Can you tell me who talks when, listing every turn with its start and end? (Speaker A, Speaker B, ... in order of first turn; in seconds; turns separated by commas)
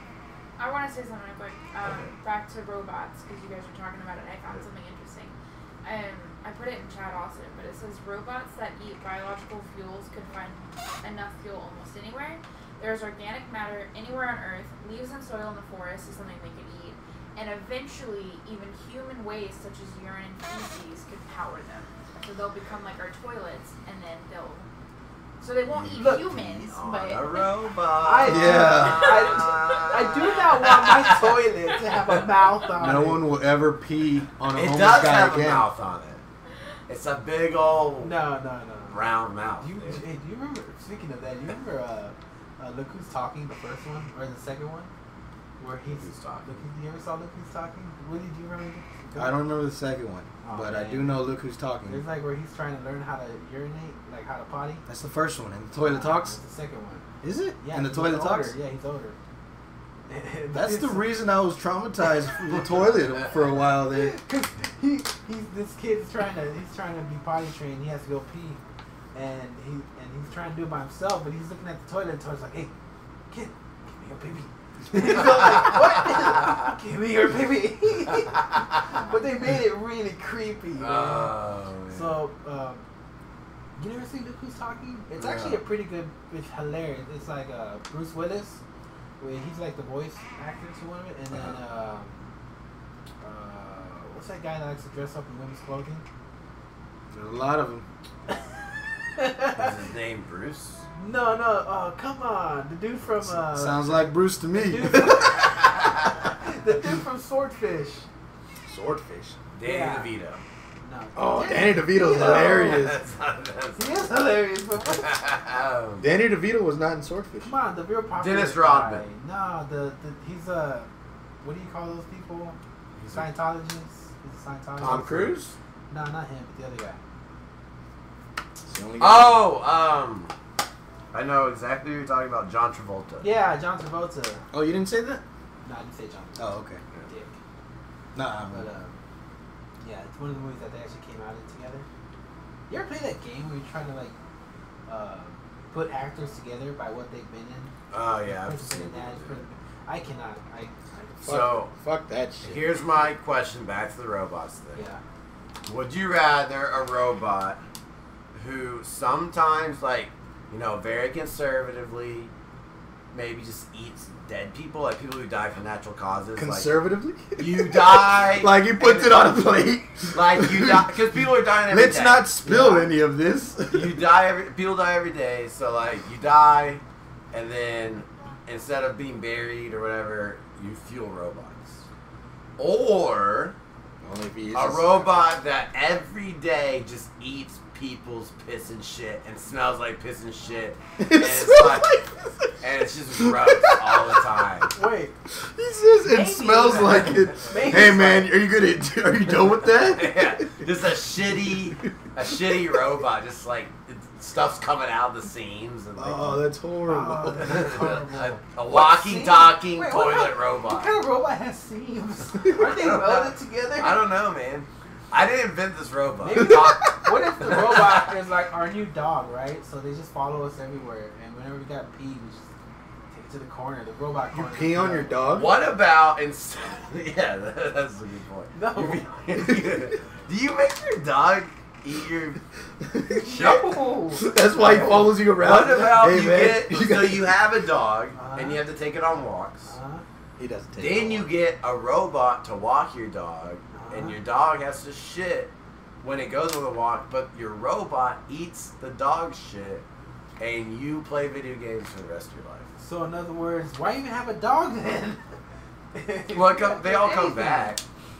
Speaker A: 0.6-24.7, Speaker A: 25.4-27.8, Speaker B: 25.7-31.3, Speaker C: 25.9-26.3, Speaker C: 28.0-33.3, Speaker D: 28.2-29.2, Speaker D: 32.8-35.7, Speaker B: 34.5-36.2, Speaker B: 36.9-38.1, Speaker C: 38.0-39.0, Speaker B: 38.9-40.0, Speaker C: 39.6-44.9, Speaker C: 45.6-49.4, Speaker B: 45.9-46.6, Speaker D: 49.1-52.0, Speaker C: 50.4-51.3, Speaker C: 51.9-54.8, Speaker D: 54.9-56.4, Speaker C: 55.8-57.0, Speaker D: 57.2-58.5, Speaker C: 57.6-59.1, Speaker C: 60.1-61.1, Speaker D: 60.5-64.2, Speaker C: 63.9-68.6, Speaker C: 69.1-72.7, Speaker C: 73.3-82.8, Speaker B: 80.8-82.2, Speaker C: 83.8-88.6, Speaker B: 85.2-85.6, Speaker C: 89.2-92.3, Speaker C: 93.2-96.0, Speaker D: 97.1-97.8, Speaker C: 99.2-99.7, Speaker B: 99.5-100.8, Speaker C: 101.0-108.1, Speaker D: 103.2-105.5, Speaker D: 108.7-109.4, Speaker B: 109.5-110.4, Speaker C: 109.6-110.1, Speaker C: 110.8-112.8, Speaker D: 111.2-113.0, Speaker B: 112.6-114.1, Speaker C: 113.8-115.2, Speaker B: 115.0-116.1, Speaker D: 116.0-117.5, Speaker C: 117.4-120.9, Speaker B: 118.2-119.0, Speaker C: 121.4-122.6, Speaker B: 123.0-123.3, Speaker C: 123.1-125.2, Speaker B: 124.8-125.4, Speaker D: 124.8-125.5, Speaker C: 125.9-127.0, Speaker D: 128.6-129.4, Speaker B: 129.0-130.3, Speaker B: 131.1-133.3, Speaker C: 133.2-134.4, Speaker D: 134.5-135.2, Speaker C: 135.6-136.5, Speaker D: 136.4-136.8, Speaker C: 137.1-137.4, Speaker D: 138.1-138.7, Speaker C: 138.5-139.0, Speaker C: 139.8-141.8, Speaker C: 142.7-144.2, Speaker C: 144.8-151.1, Speaker B: 147.9-149.4, Speaker B: 151.2-151.7, Speaker D: 151.2-152.8, Speaker B: 152.4-154.8, Speaker C: 154.7-155.0, Speaker B: 155.7-157.6, Speaker B: 158.3-162.3, Speaker B: 163.1-166.7, Speaker D: 166.3-170.9, Speaker B: 167.4-169.3, Speaker B: 170.1-172.8, Speaker D: 171.7-174.0, Speaker C: 172.5-172.9, Speaker B: 173.7-181.8, Speaker B: 182.6-183.5, Speaker D: 184.0-185.3, Speaker B: 184.5-191.9, Speaker D: 191.0-192.5, Speaker B: 192.6-194.7, Speaker D: 193.1-194.5, Speaker C: 194.7-195.1, Speaker D: 195.3-200.5, Speaker C: 196.1-198.4, Speaker B: 197.1-197.7, Speaker B: 199.3-206.5, Speaker D: 201.3-202.8, Speaker D: 206.0-207.8, Speaker C: 206.9-214.0, Speaker B: 207.4-210.9, Speaker B: 212.5-218.0, Speaker C: 216.2-222.4, Speaker D: 216.4-216.7, Speaker C: 223.1-225.2, Speaker D: 224.3-225.5, Speaker B: 225.3-232.4, Speaker C: 228.5-229.0, Speaker D: 229.5-229.8, Speaker D: 232.8-233.3, Speaker C: 233.2-234.9, Speaker B: 233.2-233.7, Speaker D: 234.1-237.4, Speaker B: 234.6-239.7, Speaker C: 238.1-238.7, Speaker C: 239.7-240.0, Speaker D: 240.4-241.3, Speaker B: 240.8-245.5, Speaker C: 243.7-244.2, Speaker B: 246.0-249.8, Speaker B: 250.4-252.7, Speaker C: 252.8-255.2, Speaker C: 255.9-257.8, Speaker B: 256.3-257.8